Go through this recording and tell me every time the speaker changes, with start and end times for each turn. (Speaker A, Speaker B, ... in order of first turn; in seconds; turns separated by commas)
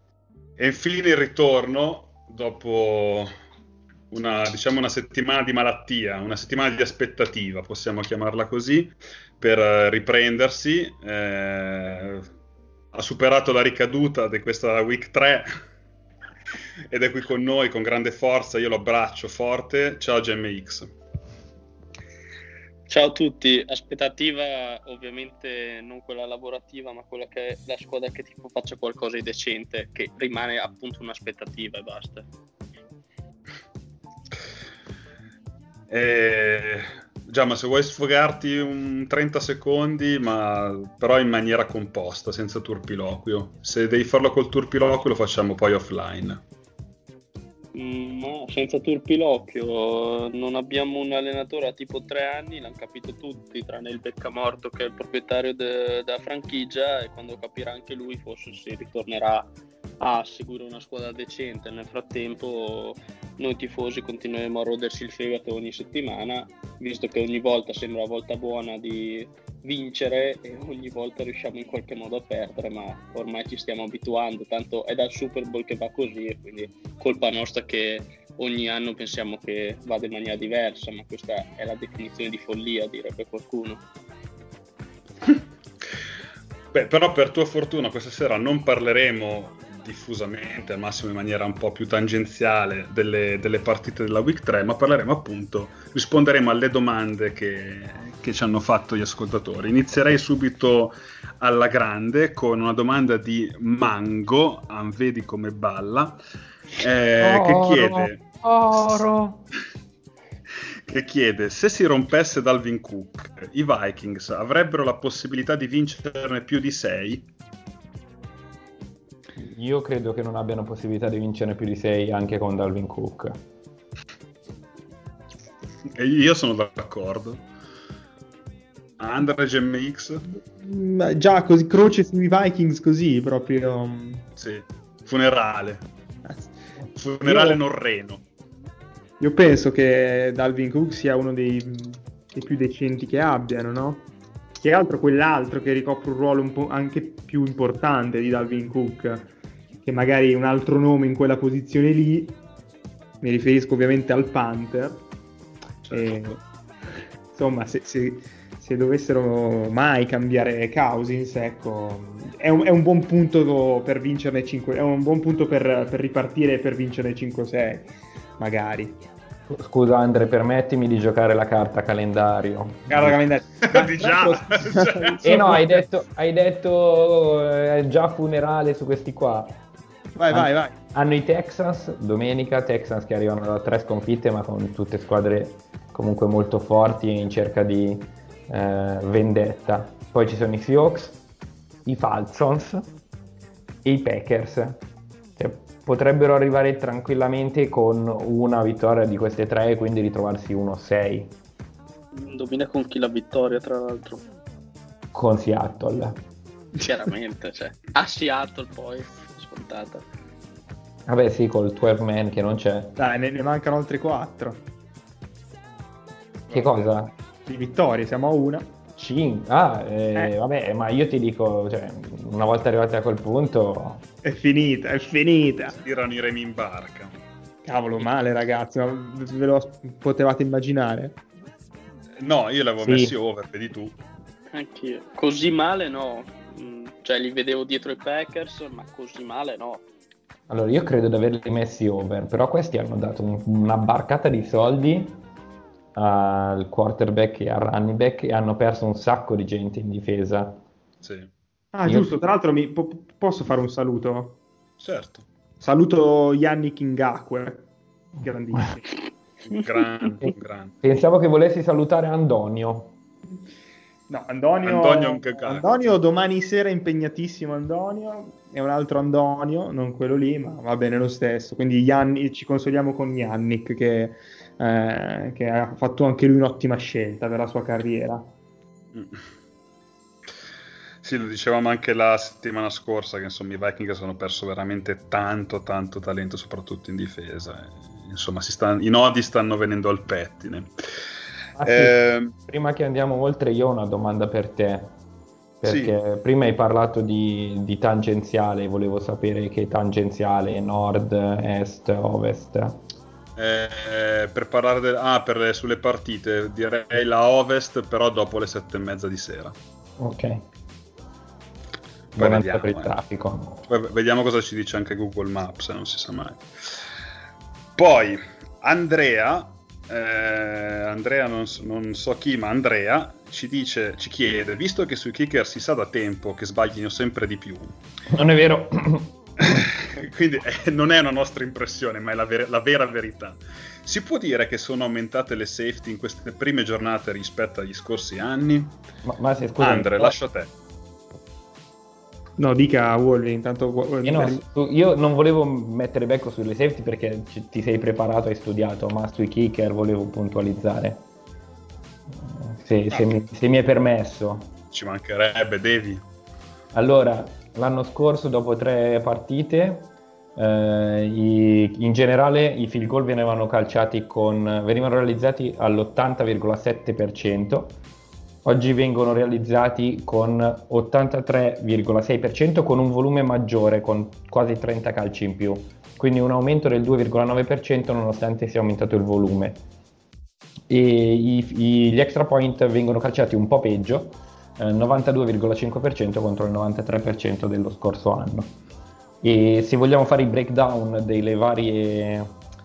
Speaker A: 0.6-3.3, Speaker A: 4.1-12.3, Speaker A: 12.9-15.5, Speaker A: 16.9-20.9, Speaker B: 22.9-32.2, Speaker A: 35.9-46.4, Speaker B: 47.7-59.5, Speaker B: 60.0-83.8, Speaker A: 86.7-106.2, Speaker A: 106.8-109.1, Speaker C: 107.2-109.4, Speaker A: 110.9-117.3, Speaker C: 119.4-123.3, Speaker A: 125.9-127.5, Speaker A: 129.0-130.3, Speaker D: 130.6-134.2, Speaker A: 134.4-135.9, Speaker D: 136.3-136.5, Speaker A: 136.9-138.2, Speaker D: 137.2-137.6, Speaker D: 139.2-144.0, Speaker D: 144.6-149.3, Speaker D: 149.8-152.4, Speaker D: 153.2-155.1, Speaker A: 155.8-156.4, Speaker D: 155.9-156.4, Speaker D: 157.3-169.0, Speaker C: 169.5-173.2, Speaker D: 172.9-175.8, Speaker A: 173.6-175.6, Speaker C: 175.2-179.6, Speaker D: 180.2-180.7, Speaker C: 180.3-191.2, Speaker C: 191.8-192.8, Speaker C: 193.8-194.8, Speaker C: 195.4-201.3, Speaker B: 202.1-204.2, Speaker C: 205.1-206.2, Speaker B: 206.7-210.1, Speaker C: 211.1-212.9, Speaker D: 213.0-214.6, Speaker A: 216.5-216.7, Speaker C: 216.5-217.1, Speaker D: 217.4-218.7, Speaker C: 218.9-224.0, Speaker D: 224.2-225.8, Speaker A: 225.7-227.2, Speaker D: 227.6-231.2, Speaker A: 232.2-234.0, Speaker D: 232.8-233.1, Speaker B: 234.5-239.8, Speaker C: 240.5-245.2, Speaker C: 245.9-250.6, Speaker A: 251.0-251.3, Speaker D: 251.7-254.4, Speaker C: 251.8-252.2, Speaker A: 254.8-255.2, Speaker D: 255.6-258.9, Speaker A: 259.4-260.8, Speaker C: 260.2-262.9, Speaker D: 264.1-278.3, Speaker A: 264.6-265.9, Speaker A: 278.9-279.2, Speaker A: 281.0-290.7, Speaker C: 291.6-295.0, Speaker A: 291.6-292.3, Speaker C: 295.6-302.8, Speaker A: 295.6-295.9, Speaker A: 303.4-309.5, Speaker C: 310.0-310.4, Speaker A: 312.1-312.9, Speaker C: 312.1-313.6, Speaker A: 313.7-316.4, Speaker A: 317.8-327.7, Speaker C: 328.1-329.6, Speaker A: 329.4-338.8, Speaker C: 339.0-340.1, Speaker A: 339.6-340.5, Speaker D: 342.4-344.4, Speaker C: 344.0-351.1, Speaker C: 352.1-354.5, Speaker A: 354.7-356.0, Speaker C: 356.7-367.8, Speaker C: 368.4-379.6, Speaker C: 380.7-388.6, Speaker C: 389.2-392.3